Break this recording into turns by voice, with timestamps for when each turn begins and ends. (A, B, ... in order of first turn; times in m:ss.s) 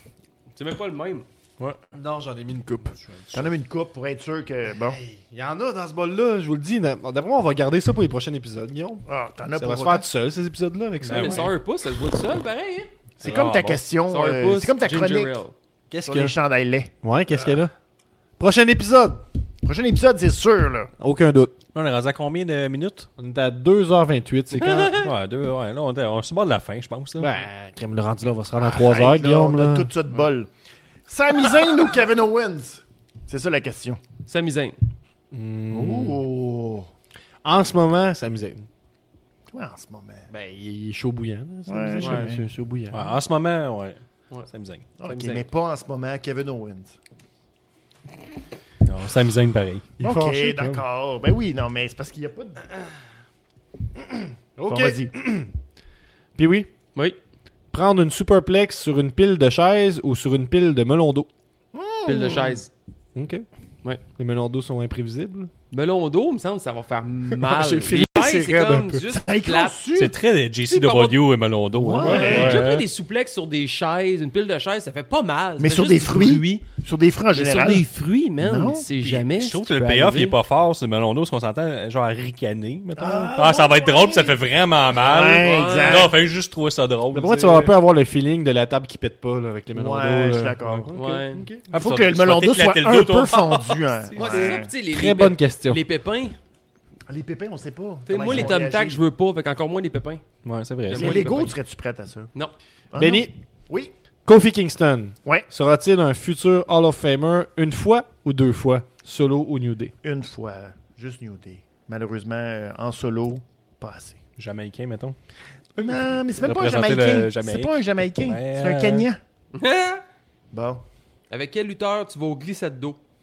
0:00.6-0:01.3 A
0:01.9-0:03.0 B
0:03.0-0:03.4 C
0:03.3-0:05.0 D
0:04.8-0:11.5 B
0:09.1-0:10.1 D
0:11.0-0:11.5 C
0:11.1-0:12.9 A
0:13.2-0:13.8 C
0:13.2-0:15.4 D
0:14.1-0:15.5 A
0:15.9-0:16.4 B
0:16.0-0:16.9 D
0:17.0-0:17.7 B
0:18.4-0:19.2 B
0:19.6-0:20.9 D
0:21.0-0:21.6 B
0:21.7-0:23.1 C
0:23.2-0:25.1 B
0:24.6-0:25.1 A
0:25.0-0:27.3 C
0:27.2-0:29.9 B
0:28.6-0:30.5 D
0:31.1-0:34.0 D
0:34.3-0:34.8 A
0:35.3-0:36.2 B
0:35.7-0:36.9 D
0:37.4-0:38.7 B
0:39.5-0:40.3 D
0:40.3-0:43.2 B
0:41.7-0:42.4 D
0:42.0-0:42.3 A
0:42.9-0:44.9 C
0:45.0-0:47.0 D
0:45.0-0:45.5 A
0:48.8-0:49.8 C
0:50.0-0:50.8 B
0:50.0-0:52.7 D
0:54.6-0:55.5 B
0:54.7-0:55.1 D
0:56.4-0:56.7 B
0:57.7-1:01.3 B
1:01.7-1:02.6 D
1:02.1-1:02.7 A
1:03.2-1:03.5 B
1:04.2-1:05.5 B
1:05.7-1:09.8 A
1:07.3-1:09.0 B
1:09.1-1:10.2 D
1:10.0-1:12.8 C
1:10.7-1:11.2 A
1:11.8-1:12.6 D
1:11.9-1:12.6 B
1:12.0-1:16.7 A
1:15.6-1:17.9 D
1:17.3-1:20.4 A
1:18.4-1:18.9 D
1:19.0-1:27.8 C
1:23.0-1:24.4 D
1:24.9-1:26.2 D
1:25.4-1:26.1 A
1:27.1-1:31.7 B
1:29.8-1:30.9 D
1:30.9-1:31.5 A
1:31.7-1:34.6 C
1:31.7-1:34.7 D
1:34.2-1:36.4 A
1:34.9-1:35.8 B
1:37.1-1:39.0 D
1:38.1-1:40.2 A
1:40.4-1:41.3 C
1:40.9-1:41.5 A
1:40.9-1:42.3 D
1:42.9-1:43.9 D
1:43.0-1:43.4 B
1:44.3-1:49.9 B
1:50.0-1:54.2 D
1:54.4-1:55.2 C
1:55.8-1:59.2 D
1:56.4-1:59.1 C
1:59.5-2:00.0 A
2:00.5-2:00.8 D
2:01.3-2:03.0 A